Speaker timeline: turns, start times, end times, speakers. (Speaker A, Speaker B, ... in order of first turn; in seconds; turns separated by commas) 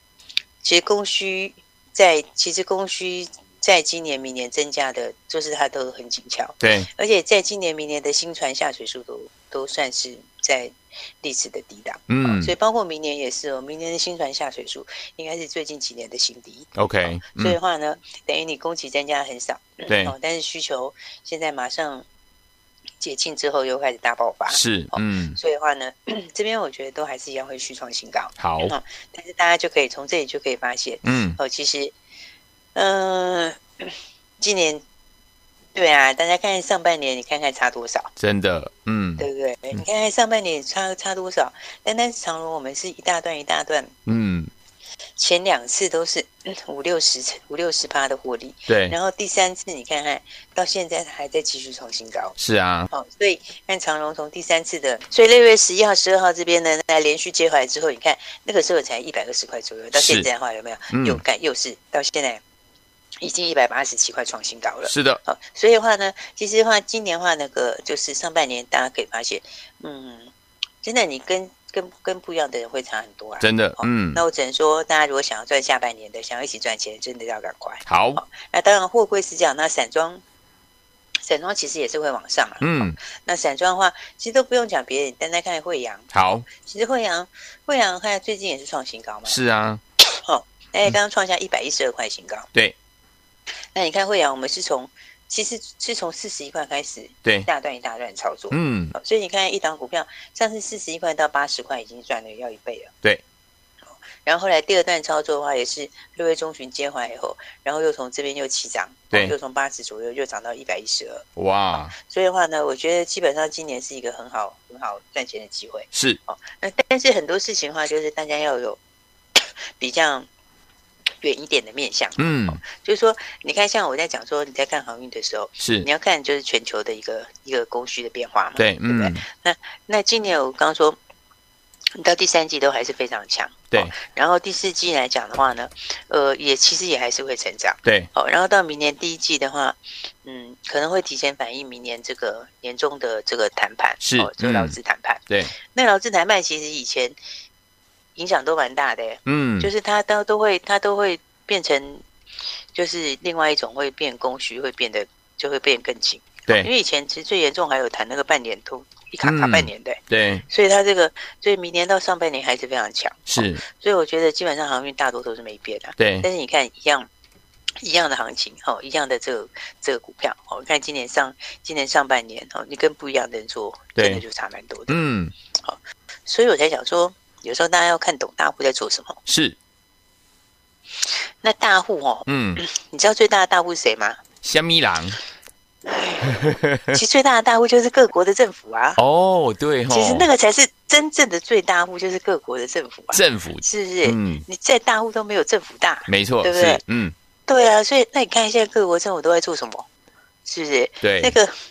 Speaker A: 0.6-22.1, Speaker B: 6.6-6.9, Speaker B: 12.1-12.5, Speaker B: 16.8-17.6, Speaker B: 19.9-20.1, Speaker A: 23.0-31.9, Speaker B: 24.5-25.4, Speaker B: 28.4-28.7, Speaker B: 31.0-31.4, Speaker A: 32.8-34.8, Speaker A: 35.8-38.1, Speaker B: 38.2-39.8, Speaker A: 39.2-43.9, Speaker B: 44.1-44.5, Speaker A: 45.2-52.4, Speaker B: 48.7-49.0, Speaker B: 52.4-52.9, Speaker A: 52.9-62.4, Speaker B: 59.9-60.3, Speaker B: 60.9-61.2, Speaker A: 63.2-70.3, Speaker B: 64.9-65.2, Speaker A: 70.8-80.2, Speaker B: 73.4-74.2, Speaker B: 77.9-78.2, Speaker A: 81.2-89.4, Speaker B: 82.6-83.0, Speaker B: 86.1-86.5, Speaker B: 89.3-89.8, Speaker A: 90.1-92.5, Speaker A: 93.8-102.9, Speaker B: 98.5-98.9, Speaker A: 104.2-118.8, Speaker B: 111.4-111.9, Speaker B: 115.9-116.2, Speaker A: 119.4-120.3, Speaker A: 121.2-131.0, Speaker B: 122.2-122.6, Speaker B: 125.6-125.9, Speaker B: 128.6-129.2, Speaker A: 132.0-147.2, Speaker B: 144.0-144.8, Speaker A: 148.2-152.1, Speaker B: 149.2-149.7, Speaker A: 152.7-167.1, Speaker B: 159.2-160.4, Speaker B: 163.3-163.6, Speaker B: 166.0-166.2, Speaker A: 167.8-175.0, Speaker B: 174.0-174.2, Speaker B: 174.9-175.3, Speaker A: 175.6-179.2, Speaker B: 179.3-179.6, Speaker A: 181.4-184.2, Speaker B: 182.2-182.6, Speaker B: 184.4-185.2, Speaker A: 185.9-189.0, Speaker B: 186.2-187.0, Speaker B: 188.9-190.3, Speaker A: 189.9-196.8, Speaker B: 193.1-194.4, Speaker B: 196.1-197.1, Speaker A: 197.5-199.9, Speaker A: 200.4-201.5, Speaker B: 201.0-201.4